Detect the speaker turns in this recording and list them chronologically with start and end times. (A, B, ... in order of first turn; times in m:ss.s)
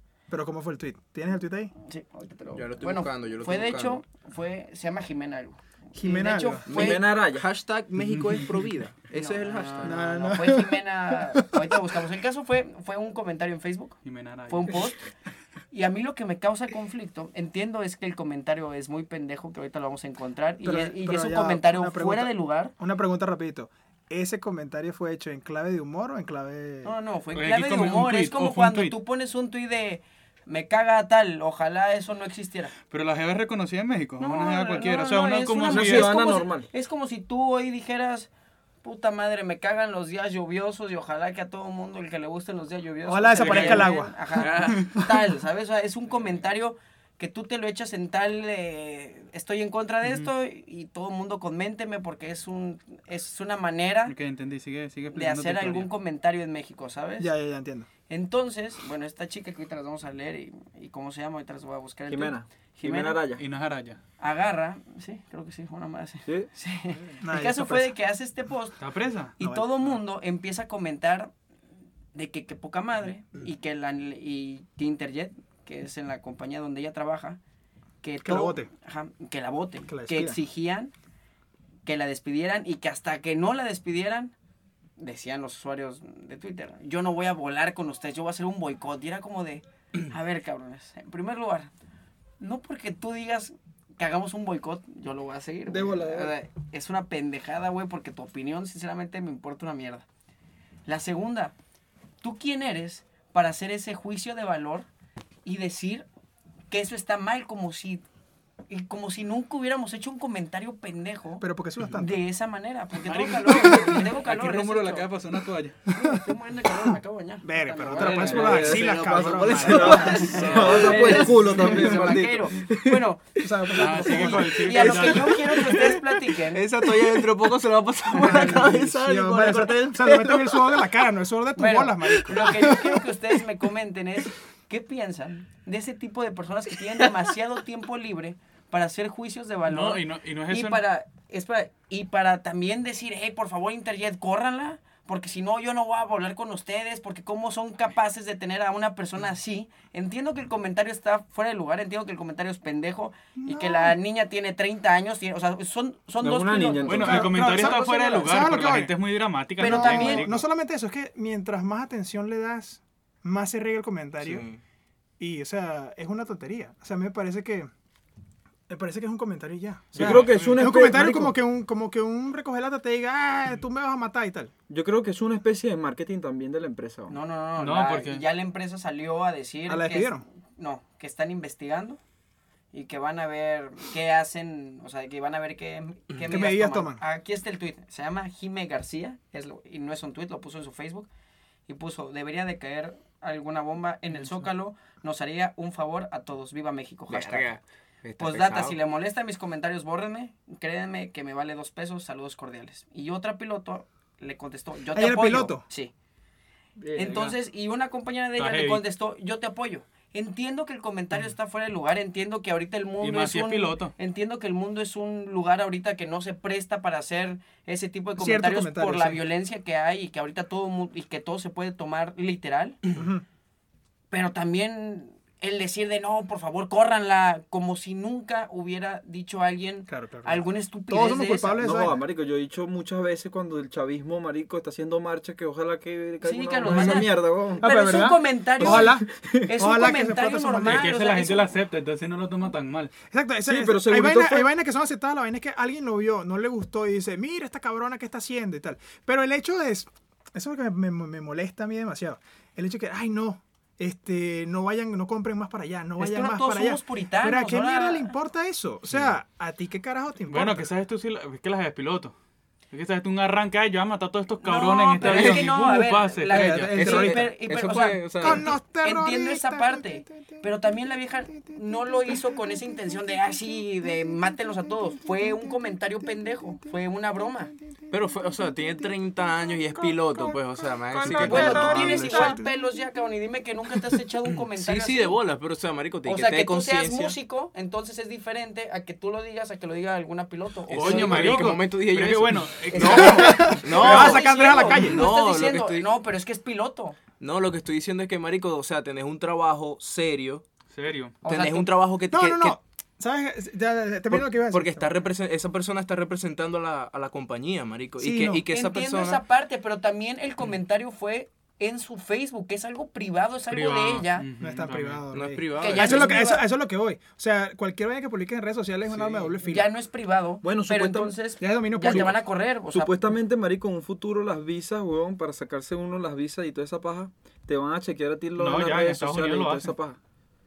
0:00.3-0:01.7 A
0:01.8-0:07.0 B
0:02.5-0:04.0 C
0:05.9-0:06.7 A
0:06.7-0:10.0 C
0:06.7-0:07.4 D
0:08.1-0:08.4 E
0:09.1-0:14.0 B
0:09.8-0:11.9 A
0:14.0-0:14.9 E
0:14.5-0:15.1 B
0:15.7-0:22.7 B
0:20.6-0:26.9 A
0:26.8-0:32.7 B
0:27.3-0:29.0 E
0:32.9-0:36.3 E
0:34.2-0:38.3 B
0:35.7-0:36.7 D
0:38.8-0:54.2 B
0:43.0-0:45.1 A
0:43.4-0:45.0 E
0:50.0-0:50.3 E
0:54.1-0:55.9 E
0:55.1-0:57.3 B
0:57.2-0:57.9 A
0:58.1-1:03.2 B
1:02.1-1:03.4 D
1:03.4-1:04.0 E
1:04.2-1:08.8 B
1:07.2-1:08.0 A
1:08.8-1:09.3 E
1:09.4-1:11.3 B
1:09.4-1:10.0 A
1:12.1-1:17.4 B
1:18.0-1:20.9 B
1:18.2-1:18.7 A
1:19.9-1:20.4 A
1:21.8-1:24.3 B
1:25.0-1:31.7 B
1:32.4-1:40.0 B
1:35.7-1:36.3 A
1:40.8-1:41.5 B
1:42.2-1:44.9 B
1:45.4-1:46.0 B
1:46.7-1:48.0 B
1:48.7-1:51.4 B
1:51.4-1:52.2 A
1:52.0-1:55.1 B
1:53.0-1:55.8 E
1:55.9-2:06.7 B
1:55.9-1:56.2 A
1:56.8-2:01.7 A
1:57.9-1:58.7 E
1:58.0-2:03.0 D
1:58.8-2:00.0 C
1:59.7-2:01.1 E
2:03.4-2:06.0 A
2:03.7-2:05.8 E
2:05.7-2:10.9 C
2:08.1-2:13.1 A
2:08.1-2:08.7 B
2:11.6-2:37.0 B
2:19.7-2:20.8 E
2:33.4-2:34.0 A
2:36.2-2:37.5 D
2:36.8-2:40.4 E
2:36.9-2:38.9 A
2:37.5-2:38.4 B
2:39.6-2:40.3 B
2:39.6-2:44.4 A
2:44.2-2:44.6 C
2:45.2-2:47.7 A
2:48.7-2:54.5 A
2:49.9-2:50.7 E
2:49.9-2:51.4 D
2:54.7-2:57.2 D
2:57.1-3:02.0 B
2:57.6-2:58.2 E
2:59.7-3:00.2 A
3:02.7-3:11.1 B
3:06.3-3:07.0 A
3:11.7-3:17.5 B
3:17.1-3:18.7 C
3:18.0-3:18.7 D
3:18.2-3:25.9 B
3:24.9-3:25.6 A
3:26.9-3:27.2 C
3:26.9-3:42.8 B
3:27.0-3:27.3 E
3:28.4-3:28.8 E
3:33.0-3:33.9 E
3:38.2-3:39.2 A
3:42.9-3:43.2 A
3:44.1-3:51.6 B
3:49.9-3:52.0 A
3:51.6-3:59.5 D
3:56.2-4:01.6 B
3:56.6-3:57.0 A
3:58.6-4:00.9 A
4:00.6-4:02.9 E
4:03.1-4:20.7 A
4:03.5-4:04.5 D
4:16.0-4:18.1 B
4:20.3-4:22.1 E
4:22.7-4:26.7 E
4:24.4-4:37.5 B
4:25.0-4:25.6 C
4:26.3-4:27.3 A
4:26.7-4:28.5 C
4:28.2-4:30.4 A
4:31.3-4:36.8 A
4:37.6-4:37.9 A
4:37.9-4:42.4 C
4:38.4-4:38.9 A
4:39.4-4:42.5 A
4:41.0-4:42.0 E
4:41.1-4:45.2 B
4:44.3-4:47.2 C
4:46.0-4:51.5 B
4:50.7-4:53.6 E
4:50.7-4:55.9 C
4:52.7-4:57.0 B
4:52.8-4:55.1 A
4:57.2-5:00.4 C
5:00.7-5:01.2 E
5:01.2-5:02.6 C
5:01.2-5:01.7 B
5:02.1-5:04.9 A
5:04.1-5:09.2 C
5:08.0-5:08.4 A
5:08.5-5:14.3 B
5:13.5-5:15.0 E
5:14.4-5:19.7 A
5:15.1-5:16.2 C
5:15.5-5:16.4 B
5:18.9-5:19.4 C
5:19.4-5:23.2 B
5:20.4-5:21.2 D
5:21.4-5:22.2 A
5:22.7-5:30.0 D
5:28.4-5:29.7 E